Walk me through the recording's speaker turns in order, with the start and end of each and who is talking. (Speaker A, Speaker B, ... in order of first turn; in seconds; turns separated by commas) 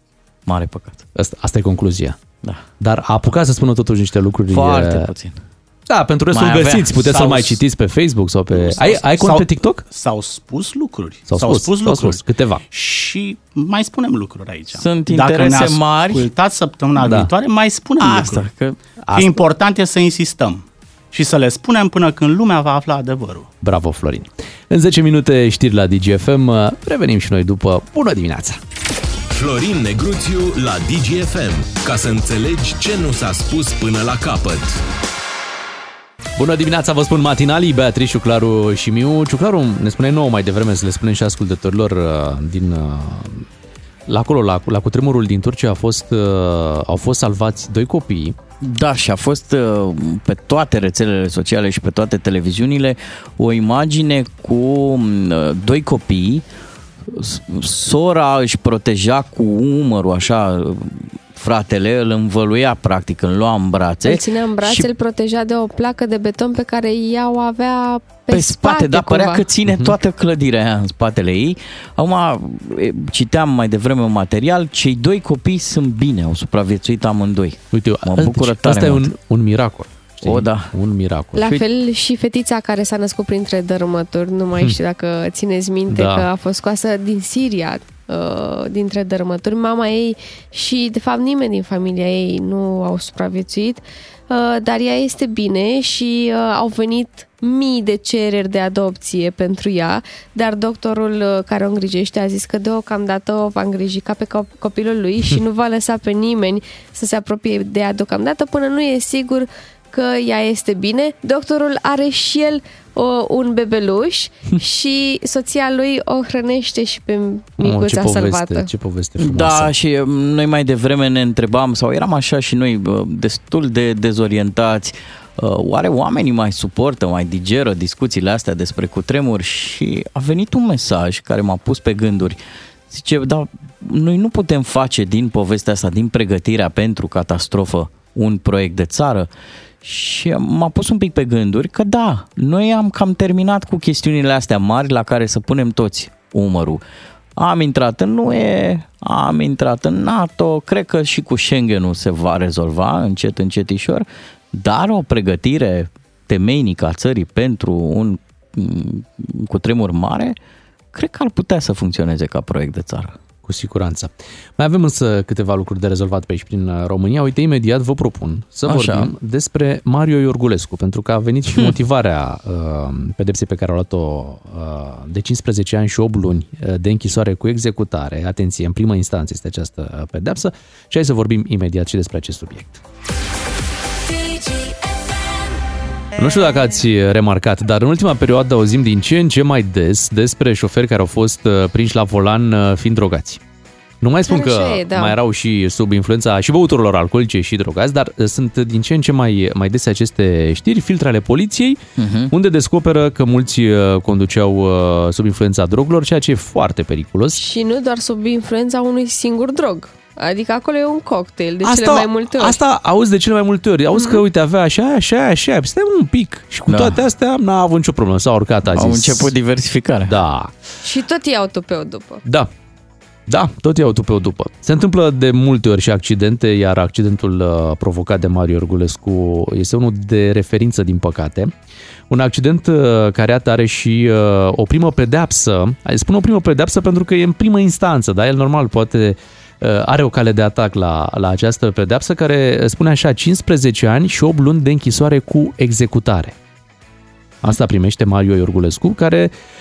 Speaker A: 0.5-1.1, Speaker B: 1.1-2.2, Speaker B: 2.8-5.1, Speaker A: 4.5-5.4, Speaker B: 5.9-9.8, Speaker A: 6.3-7.3, Speaker C: 7.1-7.6, Speaker C: 8.5-18.5, Speaker B: 11.3-12.6, Speaker A: 14.7-16.3, Speaker B: 17.0-17.3, Speaker A: 18.0-18.8, Speaker B: 19.1-19.4, Speaker C: 19.1-23.5, Speaker B: 23.6-28.6, Speaker D: 29.3-34.8, Speaker B: 36.4-43.5, Speaker B: 44.1-48.4, Speaker A: 48.6-56.5, Speaker A: 57.1-64.9, Speaker E: 64.0-69.5, Speaker A: 68.3-79.1, Speaker B: 69.7-69.9, Speaker B: 77.7-81.6, Speaker A: 80.2-80.7, Speaker E: 81.4-118.7, Speaker B: 85.9-86.3, Speaker B: 117.6-119.7, Speaker A: 119.2-132.4, Speaker A: 132.9-139.3, Speaker A: 139.8-146.8, Speaker A: 147.4-160.4, Speaker A: 160.9-163.2, Speaker B: 163.4-182.8, Speaker A: 168.7-169.1, Speaker B: 186.2-193.4, Speaker B: 194.0-207.4, Speaker E: 194.3-195.2, Speaker A: 202.0-202.3, Speaker E: 207.4-212.6, Speaker B: 211.6-219.3, Speaker E: 213.9-214.2, Speaker A: 216.7-217.0, Speaker A: 218.7-220.2, Speaker B: 220.1-220.5, Speaker E: 220.8-222.2, Speaker B: 223.3-231.5, Speaker B: 232.1-246.4, Speaker B: 247.4-249.3